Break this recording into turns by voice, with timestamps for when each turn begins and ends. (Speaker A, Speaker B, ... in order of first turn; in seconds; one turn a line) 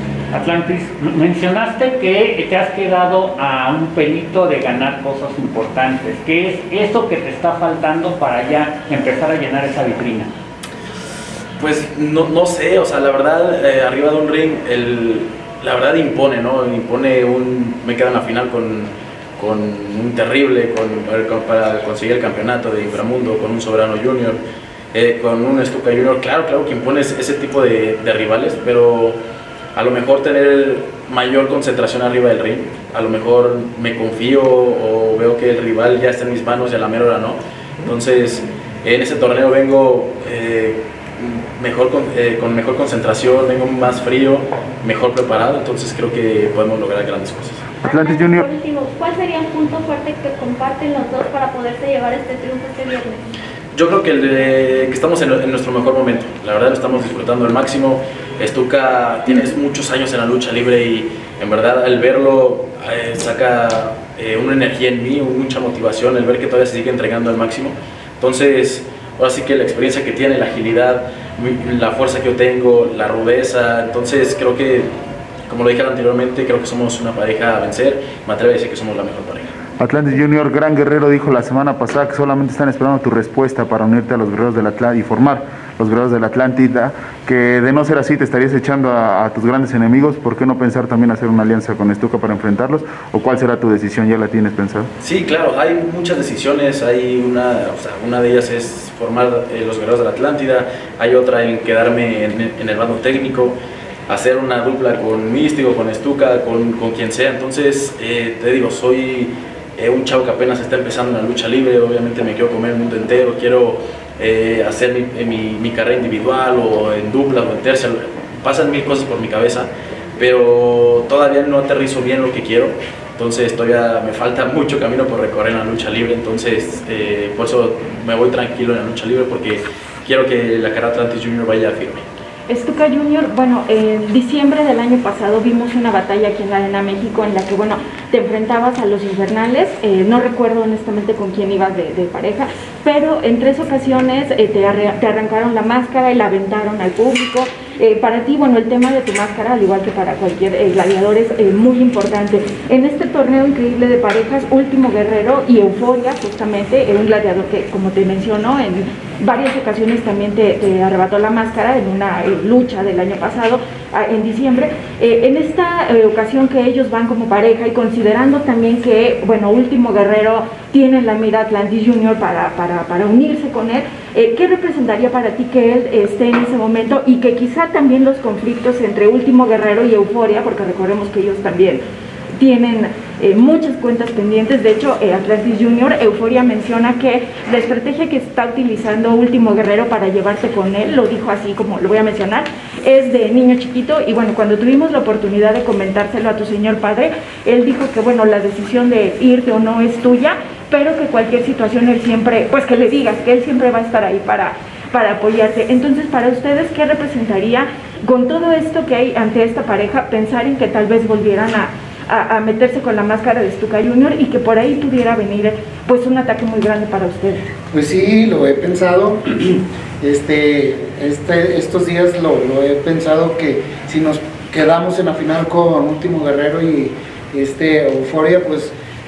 Speaker A: 0.3-10.3
Speaker B: 11.6-24.4
Speaker B: 24.9-29.2
Speaker B: 29.8-47.7
Speaker C: 47.8-53.2
Speaker D: 47.8-48.5
Speaker B: 53.7-74.9
Speaker B: 75.5-79.6
Speaker D: 79.8-94.9
Speaker B: 95.0-103.6
Speaker B: 104.1-132.1
Speaker E: 132.5-181.8
Speaker E: 182.4-217.5
Speaker F: 217.7-228.7